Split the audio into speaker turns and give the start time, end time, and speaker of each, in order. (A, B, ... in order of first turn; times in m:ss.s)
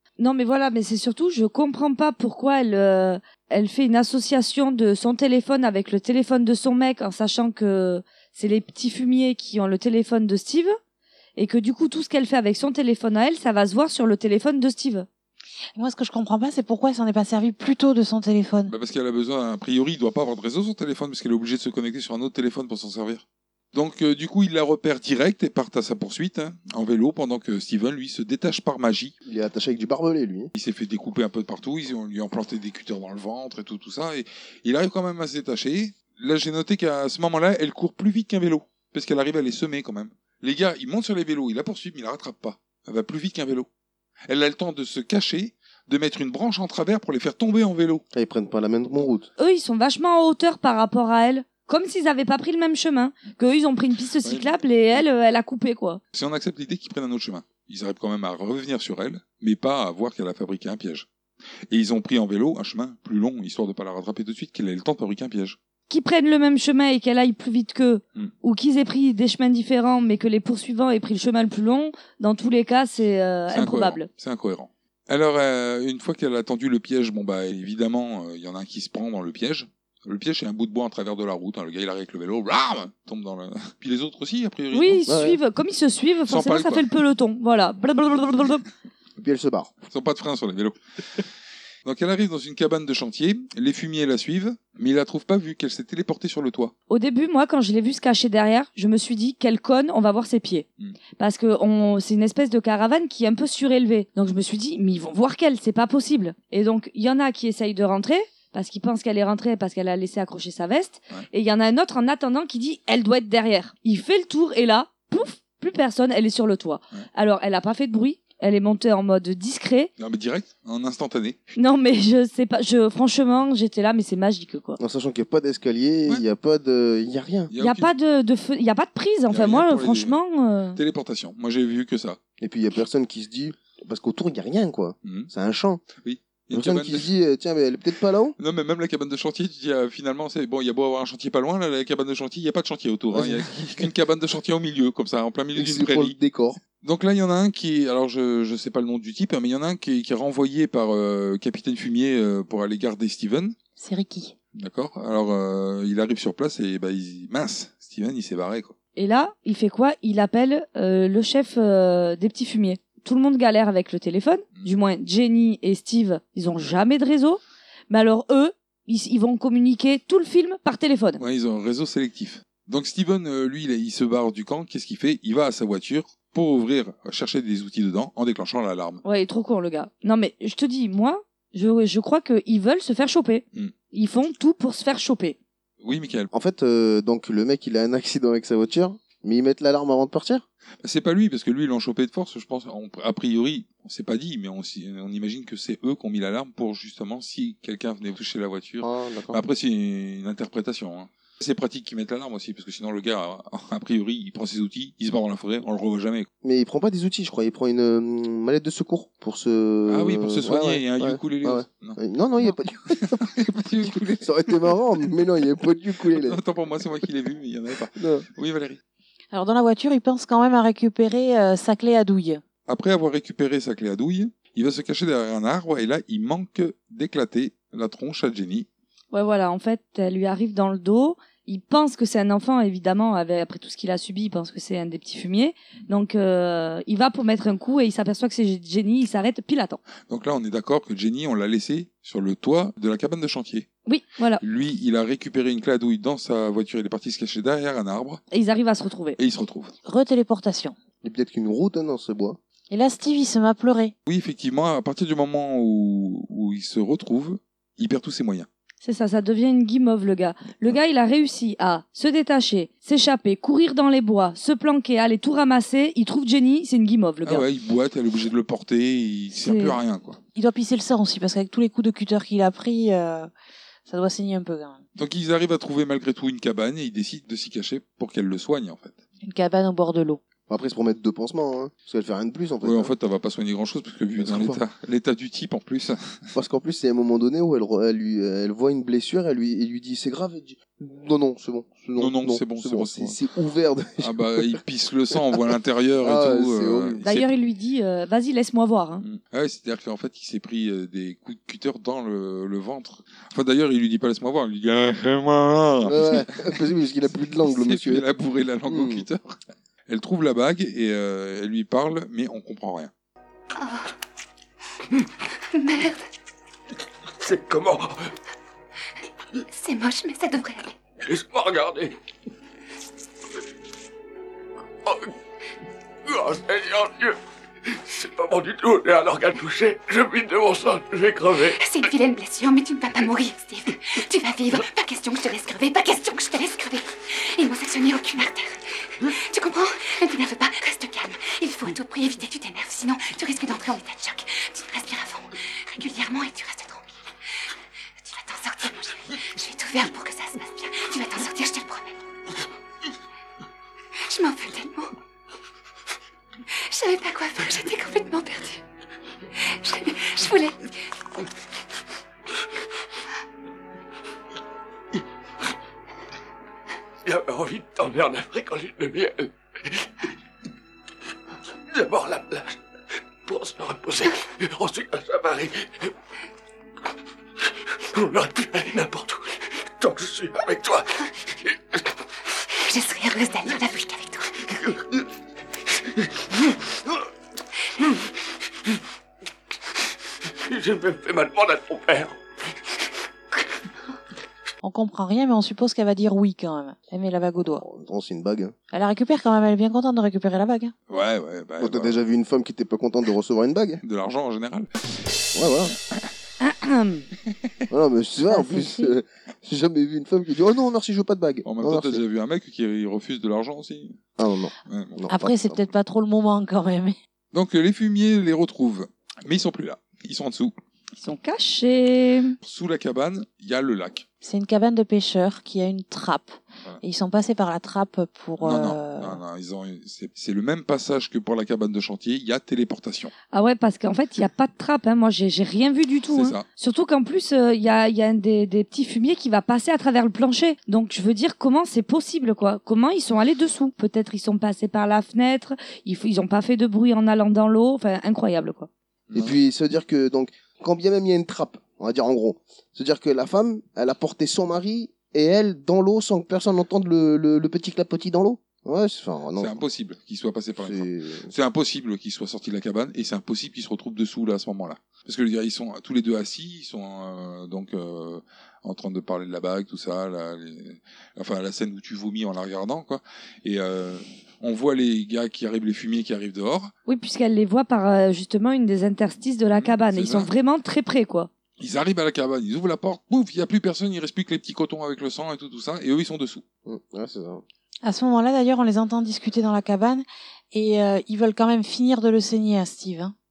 0:00.2-0:10.7 A
0:11.4-0:15.0 A
0:15.8-0:18.7 B
0:18.7-0:29.1 C
0:29.2-0:30.5 D
0:30.6-0:43.7 C
0:44.3-0:48.0 C
0:48.1-0:49.3 D
0:49.4-0:56.0 A
0:54.2-0:54.6 C
0:56.1-1:01.1 C
1:01.7-1:05.6 C
1:05.9-1:14.1 A
1:13.5-1:25.1 C
1:24.7-1:28.6 A
1:25.1-1:25.4 D
1:26.3-1:26.9 C
1:29.2-1:29.7 D
1:29.9-1:31.2 C
1:31.8-1:36.7 C
1:36.9-1:40.7 A
1:41.2-1:59.9 A
2:00.0-2:01.4 C
2:01.6-2:04.8 A
2:04.8-2:07.5 D
2:07.5-2:07.9 C
2:07.6-2:10.8 A
2:09.3-2:10.2 C
2:10.7-2:12.2 C
2:12.4-2:15.8 D
2:15.0-2:15.3 C
2:16.0-2:17.1 C
2:16.5-2:18.4 D
2:18.4-2:26.1 C
2:23.1-2:23.9 D
2:25.5-2:26.6 D
2:26.8-2:33.5 C
2:33.8-2:34.3 B
2:34.5-2:38.7 C
2:39.0-2:51.2 A
2:51.2-2:59.0 C
2:59.0-3:05.4 A
3:05.8-3:06.3 C
3:06.3-3:10.4 D
3:10.8-3:26.3 C
3:18.8-3:19.4 D
3:26.4-3:36.4 D
3:29.8-3:32.0 C
3:32.9-3:34.8 C
3:36.1-3:38.8 C
3:37.9-3:38.2 D
3:39.3-3:42.4 B
3:42.7-3:48.7 C
3:49.1-3:59.8 A
4:00.1-4:03.7 C
4:03.8-4:04.4 A
4:04.4-4:08.2 C
4:08.3-4:09.2 A
4:09.2-4:09.7 C
4:09.8-4:10.8 B
4:11.0-4:12.4 D
4:12.7-4:13.9 B
4:14.1-4:18.5 C
4:18.8-4:27.4 A
4:27.2-4:30.2 C
4:29.3-4:29.8 A
4:30.3-4:33.3 B
4:33.9-4:34.8 B
4:35.0-4:39.0 C
4:39.2-4:40.2 B
4:40.5-4:42.9 D
4:42.6-4:46.3 C
4:44.2-4:44.6 D
4:46.3-4:54.6 D
4:52.0-4:53.2 C
4:54.0-4:57.3 C
4:56.0-4:57.0 D
4:57.0-4:59.0 A
4:59.0-5:06.6 C
5:05.8-5:08.1 D
5:07.4-5:09.4 C
5:08.7-5:09.0 D
5:09.9-5:12.9 C
5:13.6-5:13.9 E
5:15.5-5:16.0 E
5:17.2-5:18.1 F
5:19.5-5:20.7 E
5:21.0-5:21.9 F
5:24.8-5:25.1 F
5:26.0-5:31.6 F
5:31.5-5:46.9 E
5:48.0-5:52.0 E
5:54.0-5:54.9 E
5:56.5-5:58.6 E
5:59.5-6:00.6 E
6:07.0-6:09.8 F
6:11.7-6:12.6 F
6:13.2-6:15.9 F
6:17.9-6:21.8 F
6:22.6-6:24.4 E
6:24.5-6:25.0 F
6:25.9-6:27.0 F
6:30.4-6:32.2 F
6:34.6-6:37.6 B
6:37.4-6:38.5 D
6:38.7-6:40.7 B
6:40.9-6:41.9 C
6:41.6-6:43.8 D
6:43.8-6:44.7 C
6:45.3-6:45.7 D
6:46.4-6:47.0 A
6:47.7-6:52.0 D
6:48.5-6:48.8 B
6:51.4-6:54.0 C
6:54.2-6:55.6 D
6:54.7-6:55.0 C
6:55.1-6:57.0 B
6:57.3-7:00.5 C
7:01.0-7:02.4 A
7:02.4-7:04.0 C
7:04.2-7:09.2 B
7:08.4-7:13.1 C
7:13.3-7:28.7 A
7:16.1-7:16.4 C
7:29.1-7:29.4 C
7:29.1-7:39.6 D
7:39.4-7:56.7 C
7:40.6-7:41.3 D
7:56.8-8:01.3 A
7:59.5-8:00.3 C
8:01.6-8:06.4 C
8:06.6-8:07.4 D
8:07.8-8:13.1 B